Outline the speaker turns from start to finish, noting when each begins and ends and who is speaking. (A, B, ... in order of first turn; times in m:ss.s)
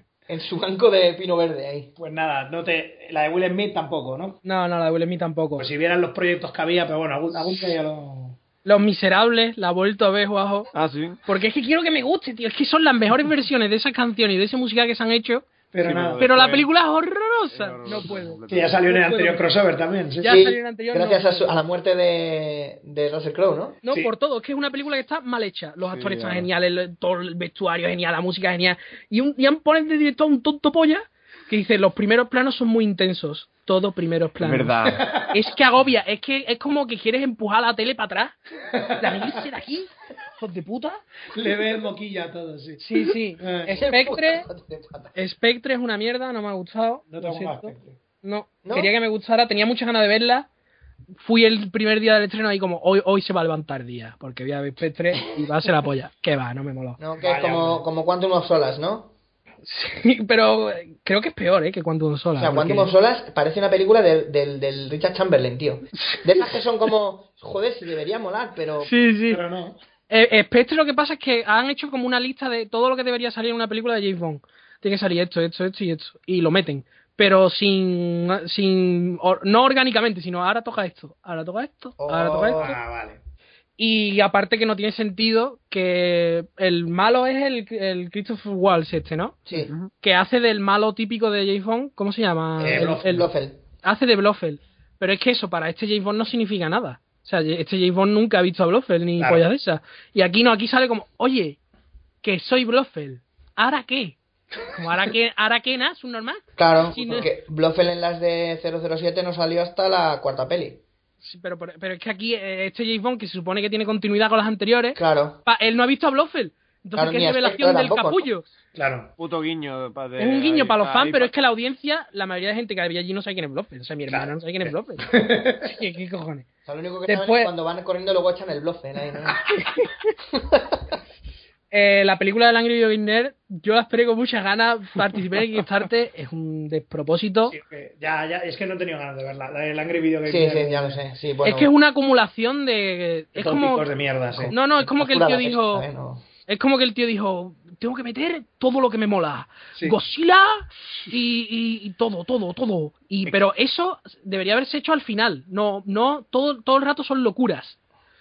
0:00.3-0:01.9 A
0:02.0-0:04.4 B
0:04.4-0:05.7 C
0:05.6-0:08.4 B
0:08.6-0:10.7 C
0:10.7-0:11.2 D
0:11.3-0:15.5 C
0:15.7-0:16.3 B
0:15.8-0:16.7 D
0:16.2-0:19.5 C
0:17.5-0:18.8 D
0:18.5-0:20.4 B
0:20.2-0:21.5 C
0:20.2-0:23.8 A
0:23.8-0:34.8 C
0:25.9-0:26.5 D
0:34.4-0:35.1 D
0:34.9-0:35.4 B
0:35.3-0:38.4 C
0:38.7-0:39.4 B
0:39.0-0:41.0 C
0:41.3-0:43.7 B
0:42.8-0:44.5 C
0:43.7-0:45.2 A
0:45.2-0:50.5 C
0:47.1-0:48.0 B
0:48.6-0:48.9 A
0:51.2-0:57.0 C
0:57.0-0:59.1 A
0:57.2-0:57.8 B
0:59.6-1:02.9 C
1:02.4-1:09.0 A
1:08.8-1:09.4 C
1:09.3-1:09.8 B
1:10.1-1:22.7 C
1:22.0-1:22.8 A
1:22.5-1:23.2 B
1:23.8-1:29.4 C
1:29.5-1:29.7 A
1:29.6-1:29.9 D
1:30.0-1:33.3 C
1:32.6-1:33.3 B
1:32.7-1:33.6 A
1:33.8-1:41.6 C
1:42.2-1:44.2 C
1:44.7-1:47.3 C
1:46.6-1:50.8 A
1:51.2-1:58.5 C
1:55.0-1:55.4 A
1:57.0-1:58.3 A
1:58.8-1:59.1 B
1:59.2-2:01.3 D
2:00.2-2:05.0 C
2:04.1-2:05.7 B
2:05.6-2:06.5 C
2:06.7-2:09.5 A
2:07.1-2:07.5 C
2:09.6-2:09.9 C
2:10.3-2:10.9 A
2:11.7-2:17.6 C
2:17.5-2:21.0 B
2:20.2-2:21.7 A
2:21.4-2:23.9 C
2:23.4-2:24.5 B
2:24.3-2:26.2 A
2:24.5-2:25.9 C
2:26.5-2:37.8 C